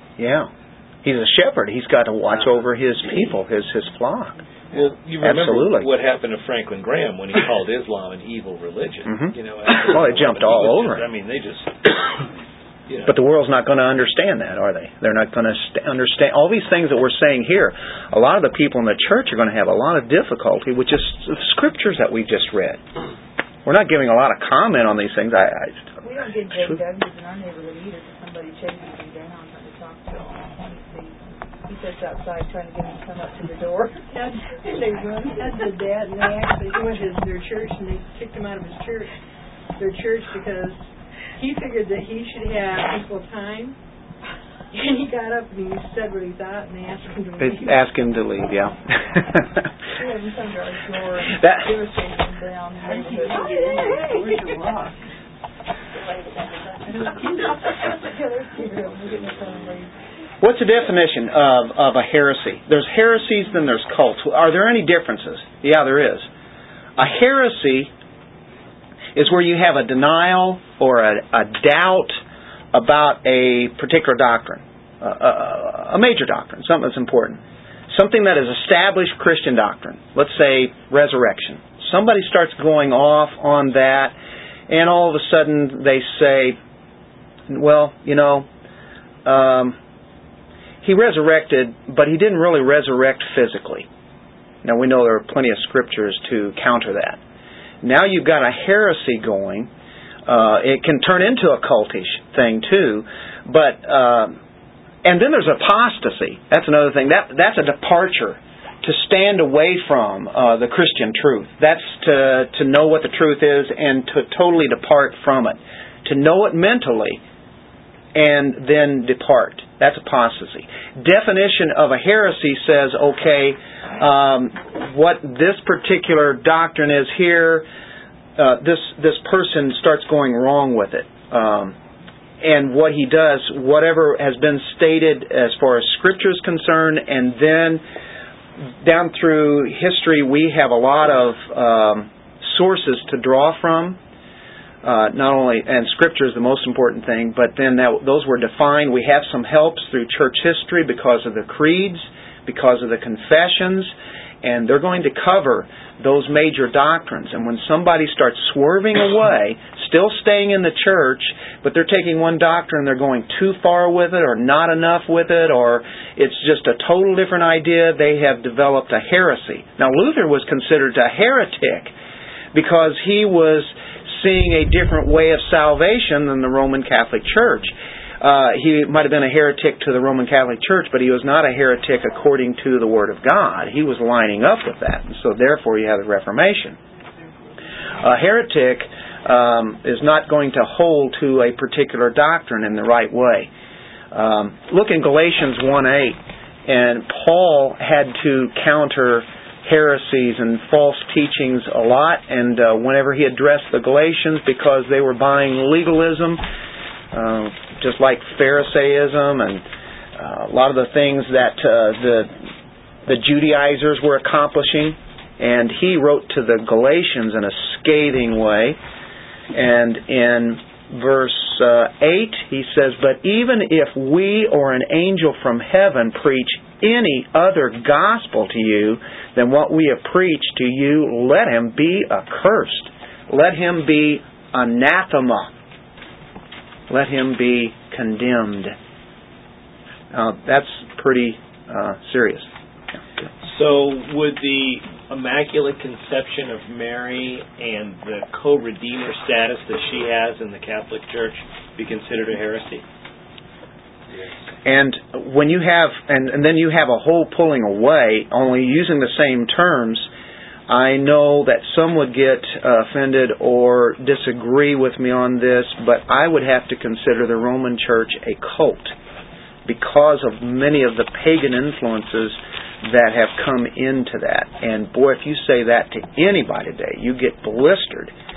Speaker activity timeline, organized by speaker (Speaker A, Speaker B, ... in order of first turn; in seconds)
Speaker A: 0.2-0.5, 1.0-4.4, 5.2-5.9, 9.1-11.0, 13.1-22.8, 23.6-26.0, 47.4-49.7, 60.4-66.3, 67.0-67.9, 69.1-72.2, 72.7-84.1, 84.7-86.6, 87.5-88.5, 89.2-89.8, 90.8-93.9, 94.6-97.2, 97.8-99.7, 100.2-104.4, 105.0-117.2, 118.1-127.7, 128.4-131.8, 132.4-137.8, 138.8-144.0, 144.8-171.9, 172.5-186.8, 188.0-193.5, 194.1-206.4, 207.1-212.4, 213.1-218.8, 219.5-235.5, 236.9-238.8, 240.1-242.5, 254.6-260.1, 260.7-268.9, 269.6-278.1
Speaker B: 4.7-12.0, 12.9-13.1, 243.4-252.8
Speaker C: 26.0-34.1, 50.0-54.1, 56.1-56.4, 57.2-59.9
Speaker D: 34.1-39.1, 39.8-40.9, 41.4-43.8, 44.7-47.8, 52.8-54.9, 56.7-57.3